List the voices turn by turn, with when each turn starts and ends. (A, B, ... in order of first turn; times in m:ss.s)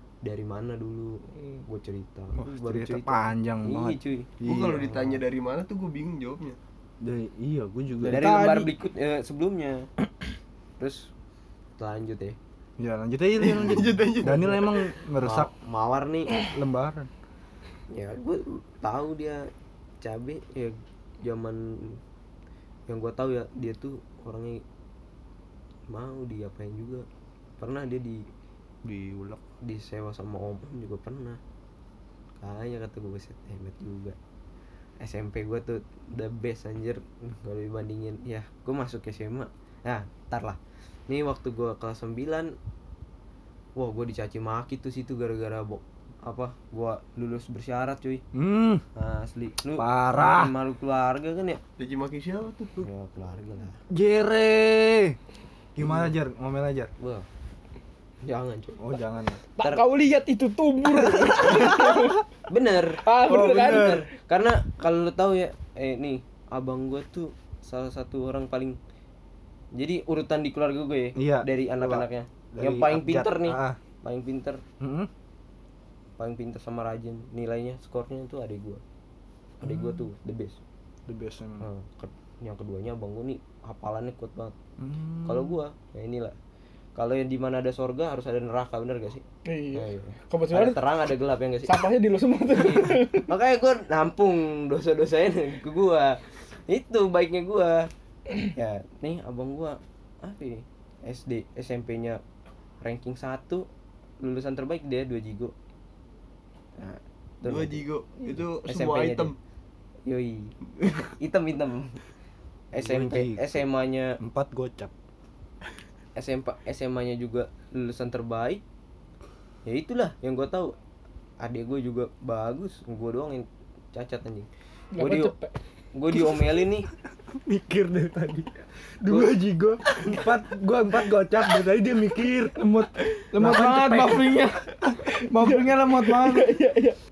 0:00.2-0:04.3 A
0:02.3-0:05.2 B
0:04.4-0:06.6 C
0:07.0-0:08.6 B
0:08.0-0:09.9 A
0:08.4-0:08.6 D
0:10.8-0:11.1 A
0:11.8-0:12.4 A
0:12.8-0:15.5 B
0:13.4-0:14.9 C
0:15.2-0:16.4 A
0:16.5-0:17.1 B
0:17.9-0:19.5 A
0:20.0-0:22.0 A
0:22.9-0:24.6 A
0:25.9-0:27.0 A
0:27.6-0:28.2 A
0:28.8-0:29.4 B
0:29.6-0:31.4 A
0:32.4-0:34.2 A
0:35.0-0:42.5 A
0:43.8-0:48.2 A
0:48.3-0:48.8 B
0:48.9-0:51.6 A
0:49.8-0:50.5 B
0:51.8-0:52.9 C
0:52.8-0:53.8 A
0:53.9-0:55.2 B
0:55.8-0:56.9 B
0:55.8-0:56.1 A
0:57.0-0:57.2 A
0:58.2-0:59.0 A
0:58.8-0:59.4 B
0:59.6-1:02.2 E
1:01.3-1:01.9 A
1:02.5-1:08.8 A
1:03.0-1:04.0 E
1:03.2-1:04.0 B
1:09.7-1:14.6 A
1:11.1-1:13.8 B
1:14.8-1:15.1 B
1:16.2-1:18.8 A
1:19.6-1:20.6 A
1:19.6-1:20.1 B
1:21.1-1:21.6 B
1:21.6-1:24.5 A
1:24.8-1:25.6 B
1:25.2-1:26.4 A
1:27.0-1:31.8 A
1:29.4-1:30.8 E
1:31.6-1:33.3 E
1:32.5-1:37.9 A
1:38.5-1:42.2 A
1:42.8-1:43.7 A
1:44.2-1:45.5 A
1:46.8-1:49.3 A
1:47.4-1:49.4 C
1:50.1-1:52.0 A
1:52.7-1:54.2 A
1:52.7-1:53.6 B
1:54.2-1:54.9 B
1:56.2-1:58.6 A
1:59.6-2:00.8 A
2:01.4-2:05.3 A
2:04.9-2:05.5 E
2:05.9-2:06.9 A
2:07.3-2:12.6 B
2:09.1-2:09.3 A
2:12.6-2:16.6 D
2:13.4-2:14.2 B
2:15.0-2:17.0 E